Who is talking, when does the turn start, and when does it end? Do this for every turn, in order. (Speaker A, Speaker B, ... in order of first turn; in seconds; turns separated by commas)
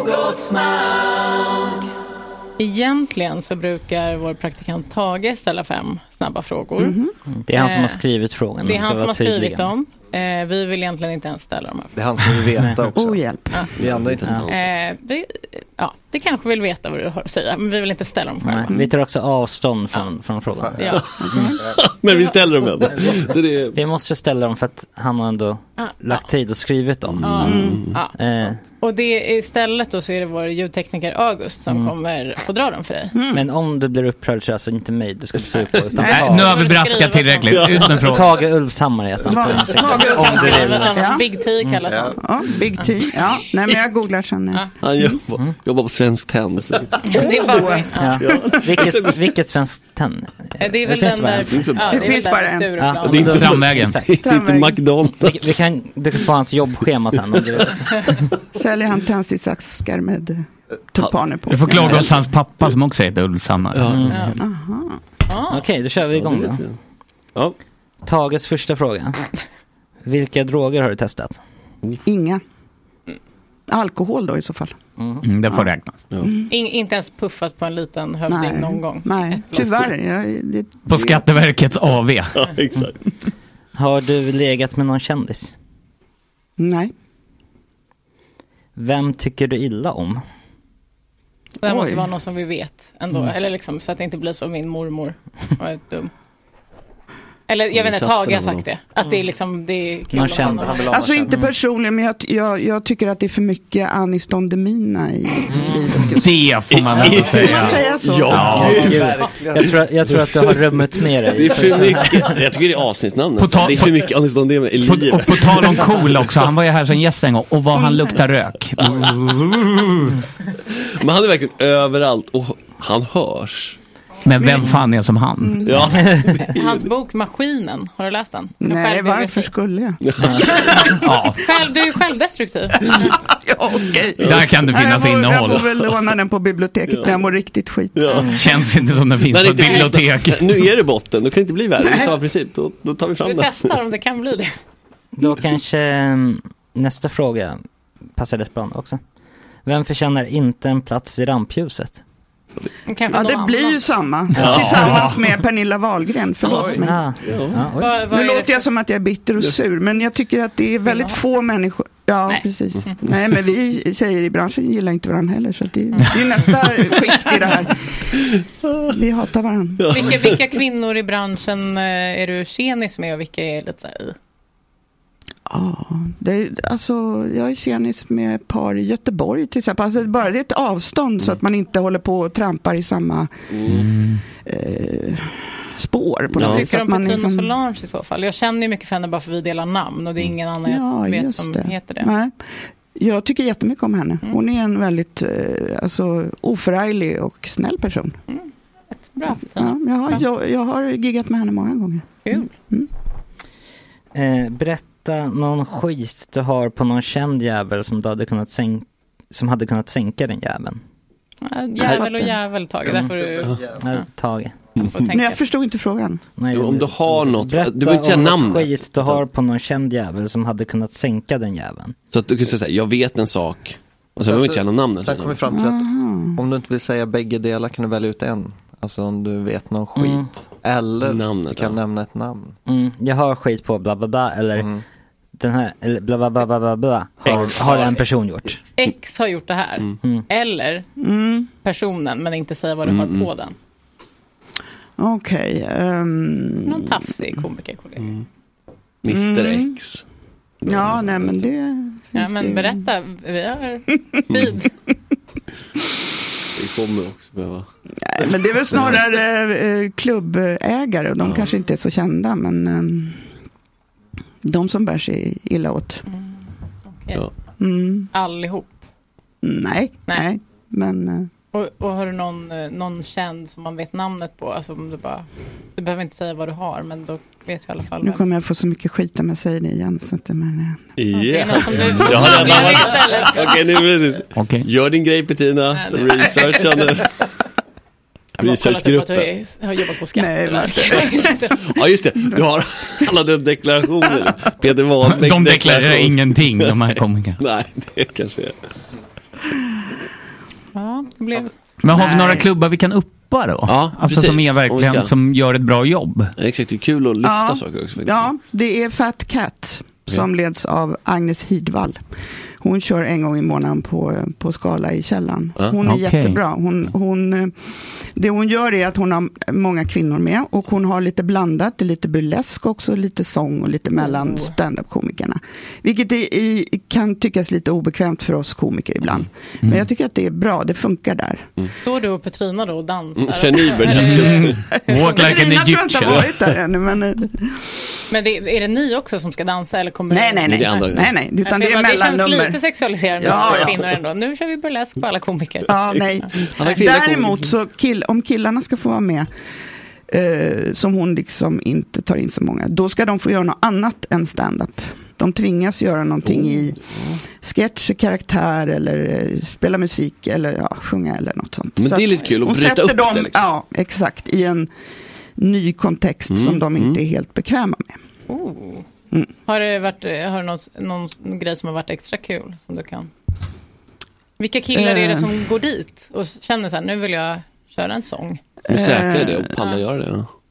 Speaker A: 2.6-7.0, Speaker B: 6.8-7.1, Speaker C: 7.3-9.7, Speaker A: 7.5-8.0, Speaker A: 8.6-11.9, Speaker D: 11.9-13.2, Speaker C: 12.6-12.9, Speaker B: 12.9-13.7, Speaker E: 13.8-14.7, Speaker D: 13.8-14.4, Speaker A: 14.5-18.7, Speaker C: 18.4-21.0, Speaker D: 20.6-20.8, Speaker A: 20.8-21.5, Speaker B: 21.2-21.6, Speaker E: 21.7-23.8, Speaker A: 22.1-22.3, Speaker C: 23.7-28.6, Speaker A: 25.8-26.3, Speaker E: 27.1-28.0, Speaker A: 27.2-33.1, Speaker B: 27.4-27.9, Speaker C: 31.7-31.9, Speaker B: 33.1-33.4, Speaker C: 33.3-36.5, Speaker B: 36.0-36.3, Speaker A: 36.0-37.6, Speaker F: 36.0-38.3, Speaker E: 37.5-37.9, Speaker C: 38.0-41.0, Speaker B: 39.2-41.3, Speaker A: 39.9-42.2, Speaker D: 41.9-42.2, Speaker B: 42.2-45.2, Speaker E: 44.8-47.2, Speaker A: 47.0-48.4, Speaker B: 47.1-48.6, Speaker C: 48.0-51.7, Speaker E: 48.2-49.2, Speaker A: 50.6-53.5, Speaker E: 51.5-52.2, Speaker B: 51.9-52.9, Speaker C: 52.8-54.1, Speaker E: 53.0-55.5, Speaker F: 53.3-54.0, Speaker B: 54.2-54.8, Speaker C: 55.2-58.1, Speaker B: 58.5-62.0, Speaker F: 61.5-64.2, Speaker E: 61.7-62.1, Speaker E: 63.7-64.1, Speaker C: 63.9-64.3, Speaker A: 64.1-64.4, Speaker B: 64.4-65.0, Speaker A: 65.3-65.6, Speaker C: 65.5-66.6, Speaker E: 66.1-66.7, Speaker C: 68.0-69.2, Speaker C: 70.0-71.4, Speaker B: 72.0-72.4, Speaker B: 73.7-74.8, Speaker C: 75.0-75.2, Speaker F: 75.2-76.0, Speaker B: 75.5-76.5, Speaker A: 76.5-79.9, Speaker B: 78.3-81.3, Speaker F: 80.8-82.4, Speaker E: 82.3-83.0, Speaker C: 83.7-85.5, Speaker B: 86.6-86.9, Speaker C: 88.8-90.2, Speaker A: 91.6-96.1, Speaker B: 91.6-92.1, Speaker A: 97.5-100.9, Speaker E: 97.7-98.6, Speaker C: 100.1-101.3, Speaker D: 100.2-101.5, Speaker B: 100.9-108.7, Speaker F: 106.1-108.8, Speaker E: 106.7-109.1, Speaker D: 107.4-109.8, Speaker C: 108.7-112.4, Speaker E: 111.3-116.3, Speaker F: 113.4-114.1, Speaker F: 114.8-119.9, Speaker B: 117.7-118.2, Speaker E: 118.8-119.7, Speaker E: 120.8-123.8, Speaker F: 124.2-125.8, Speaker B: 124.4-124.7, Speaker B: 125.4-125.9, Speaker E: 125.6-126.8, Speaker A: 126.4-129.5, Speaker B: 128.6-131.1, Speaker E: 130.0-130.9, Speaker F: 131.0-131.4, Speaker A: 131.0-133.1, Speaker B: 132.9-138.2, Speaker E: 134.2-134.5, Speaker F: 134.2-135.7, Speaker E: 135.4-135.8, Speaker E: 136.9-137.1, Speaker E: 137.9-138.3, Speaker F: 138.3-140.7, Speaker E: 139.3-143.7, Speaker B: 141.8-142.1, Speaker A: 143.2-144.5, Speaker C: 145.2-147.6, Speaker C: 148.1-149.0, Speaker C: 149.6-152.0, Speaker A: 152.8-153.8, Speaker B: 153.1-157.1, Speaker E: 154.4-155.1, Speaker C: 154.4-154.8, Speaker F: 154.8-155.1, Speaker D: 156.4-156.8, Speaker C: 156.8-158.0, Speaker E: 157.2-157.7, Speaker A: 157.8-158.6, Speaker B: 158.0-167.8, Speaker A: 160.9-161.2, Speaker A: 162.3-162.9, Speaker B: 168.9-170.0, Speaker E: 169.8-170.3, Speaker A: 169.9-174.2, Speaker B: 175.5-183.3, Speaker E: 183.5-183.9, Speaker F: 183.7-184.2, Speaker B: 184.4-187.5, Speaker E: 186.3-186.6, Speaker A: 186.4-192.1, Speaker B: 190.6-192.3, Speaker B: 192.9-198.2, Speaker A: 198.3-200.2, Speaker B: 199.5-202.9, Speaker A: 202.2-202.5, Speaker C: 204.1-210.8, Speaker A: 211.4-214.1, Speaker B: 211.8-212.3, Speaker D: 213.1-213.8, Speaker C: 213.8-214.6, Speaker A: 214.8-215.4, Speaker B: 215.1-216.2, Speaker C: 216.4-221.9, Speaker E: 216.5-219.2, Speaker E: 222.1-225.4, Speaker D: 224.2-232.6, Speaker B: 225.5-226.4, Speaker C: 229.9-230.3, Speaker E: 231.0-231.8, Speaker C: 232.7-234.7, Speaker C: 235.3-238.6, Speaker E: 237.3-237.9, Speaker D: 237.3-237.7, Speaker A: 238.8-240.9, Speaker B: 241.0-241.5, Speaker A: 241.6-243.5, Speaker E: 242.8-243.3, Speaker B: 245.0-246.9, Speaker A: 246.7-248.2, Speaker E: 249.0-250.0, Speaker B: 249.1-249.8, Speaker B: 250.6-252.9, Speaker E: 250.7-251.4, Speaker A: 252.1-254.7, Speaker E: 256.6-257.7, Speaker B: 258.1-263.2, Speaker E: 258.2-259.0, Speaker E: 261.2-261.5, Speaker B: 264.4-266.0, Speaker A: 266.1-267.2, Speaker B: 267.6-268.1, Speaker A: 268.1-268.7, Speaker B: 269.4-271.3, Speaker A: 271.5-278.3, Speaker B: 278.0-280.9, Speaker E: 281.0-287.1, Speaker A: 281.1-283.5, Speaker F: 284.4-284.7, Speaker A: 285.7-286.3, Speaker B: 286.3-286.7, Speaker E: 288.4-289.3, Speaker A: 288.4-291.6, Speaker B: 290.1-291.6, Speaker E: 291.6-296.8, Speaker F: 295.0-297.4, Speaker E: 297.4-298.6, Speaker A: 300.7-301.5, Speaker F: 301.8-306.3, Speaker B: 301.9-302.5, Speaker E: 303.6-305.1, Speaker E: 306.4-308.3, Speaker B: 307.2-312.0, Speaker B: 312.6-317.5, Speaker F: 315.8-316.4, Speaker B: 318.1-331.4, Speaker A: 324.0-324.4, Speaker A: 331.8-335.4, Speaker E: 333.2-334.6, Speaker F: 333.9-336.3, Speaker B: 334.7-337.5, Speaker A: 338.1-340.9, Speaker B: 340.1-342.6, Speaker E: 340.4-341.1, Speaker A: 341.4-346.7, Speaker B: 343.2-343.8, Speaker E: 343.3-343.7, Speaker B: 345.7-349.3, Speaker E: 346.4-347.5, Speaker B: 350.1-356.8, Speaker E: 356.3-357.1, Speaker B: 357.3-364.7, Speaker E: 361.8-363.4, Speaker B: 365.4-368.0, Speaker E: 366.3-367.0, Speaker A: 368.3-368.9, Speaker A: 369.5-373.1, Speaker A: 374.4-378.4, Speaker B: 374.7-375.3, Speaker B: 378.7-379.5, Speaker E: 378.7-380.3